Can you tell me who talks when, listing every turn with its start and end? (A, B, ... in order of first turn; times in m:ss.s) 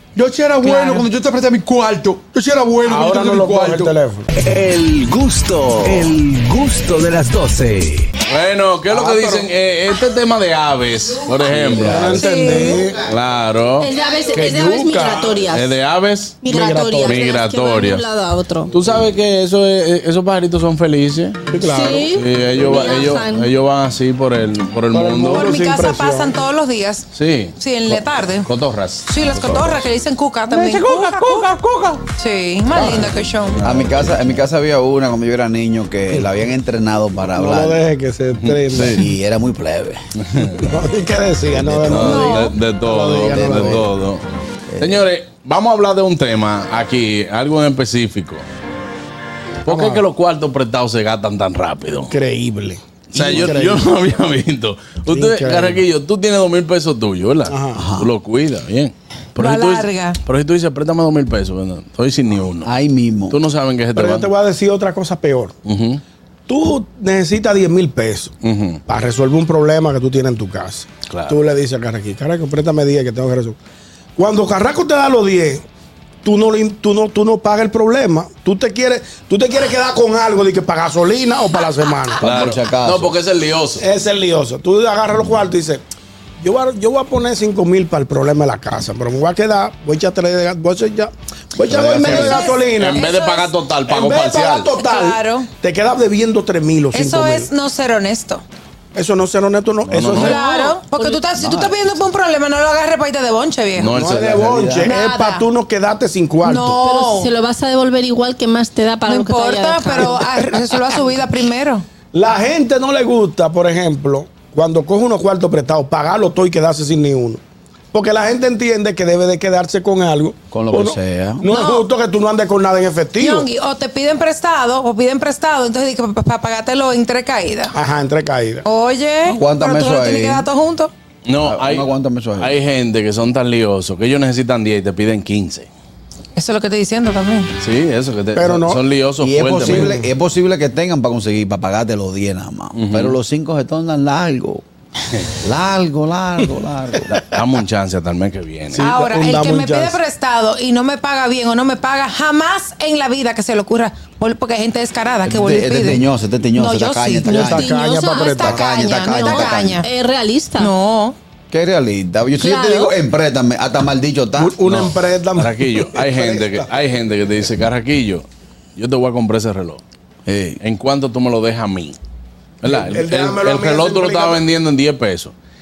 0:00.2-0:04.0 A
0:02.3-0:04.3 B
0:04.4-0:08.1 C
0:05.8-0:06.2 A
0:08.3-0:12.1 D
0:08.9-0:09.5 B
0:11.5-0:12.2 E
0:11.7-0:13.0 B
0:12.1-0:12.8 F
0:13.0-0:13.9 D
0:13.8-0:15.7 G
0:14.3-0:15.4 B
0:15.5-0:16.4 D
0:16.4-0:18.8 G
0:16.5-0:17.2 B
0:17.0-0:18.0 D
0:18.7-0:19.0 B
0:18.7-0:21.5 D
0:21.5-0:22.1 B
0:21.6-0:23.5 G
0:22.1-0:25.5 D
0:24.9-0:26.4 B
0:25.3-0:28.5 F
0:27.1-0:29.7 D
0:29.1-0:31.5 F
0:30.5-0:32.0 A
0:32.2-0:33.6 F
0:32.8-0:33.1 B
0:32.8-0:34.2 D
0:33.6-0:37.8 E
0:37.3-0:39.1 B
0:38.4-0:39.1 D
0:38.8-0:40.0 E
0:40.2-0:40.6 D
0:40.6-0:43.8 B
0:41.5-0:42.2 E
0:41.9-0:44.2 D
0:42.0-0:42.5 F
0:43.2-0:43.9 E
0:44.7-0:45.1 E
0:44.8-0:48.4 D
0:49.6-0:52.1 D
0:49.7-0:50.0 B
0:52.1-0:53.8 B
0:53.1-1:02.7 D
0:55.1-0:55.8 B
0:57.5-0:57.8 B
0:57.7-0:58.1 E
0:59.4-1:00.2 F
1:02.6-1:03.4 E
1:03.3-1:04.3 D
1:03.9-1:05.5 B
1:05.6-1:06.0 D
1:06.5-1:08.3 B
1:08.4-1:08.8 D
1:08.9-1:13.6 B
1:11.1-1:11.4 D
1:14.2-1:15.6 B
1:16.2-1:22.2 B
1:22.2-1:23.1 E
1:22.2-1:23.8 D
1:23.8-1:25.8 B
1:26.4-1:33.1 B
1:31.7-1:32.4 E
1:31.9-1:34.8 D
1:32.0-1:33.5 F
1:33.9-1:37.5 B
1:34.7-1:35.5 F
1:36.9-1:38.4 F
1:38.9-1:40.4 B
1:39.9-1:40.4 D
1:40.1-1:44.0 F
1:40.3-1:41.0 G
1:41.4-1:42.0 E
1:43.8-1:44.4 D
1:43.9-1:46.8 B
1:44.0-1:44.9 E
1:44.8-1:45.4 F
1:46.4-1:47.3 F
1:46.8-1:50.3 G
1:49.1-1:51.8 F
1:52.1-1:57.4 B
1:57.9-2:03.5 B
2:00.5-2:01.5 E
2:01.5-2:01.9 F
2:03.2-2:07.7 F
2:07.7-2:08.7 B
2:08.6-2:10.9 F
2:09.2-2:10.5 E
2:11.3-2:15.7 D
2:11.4-2:12.6 E
2:16.4-2:17.5 F
2:17.6-2:20.0 D
2:18.4-2:18.8 B
2:19.2-2:24.6 E
2:19.6-2:20.1 B
2:22.8-2:23.2 D
2:25.4-2:27.2 E
2:27.3-2:28.9 D
2:28.7-2:30.0 B
2:28.8-2:37.6 F
2:35.2-2:37.7 E
2:37.3-2:40.7 G
2:37.3-2:38.7 B
2:38.2-2:39.9 F
2:38.4-2:39.8 E
2:40.6-2:41.2 F
2:41.5-2:44.6 E
2:42.4-2:43.0 G
2:44.4-2:46.7 B
2:44.7-2:49.8 D
2:50.3-2:50.6 E
2:50.6-2:52.0 D
2:52.6-2:55.3 D
2:52.6-2:54.4 B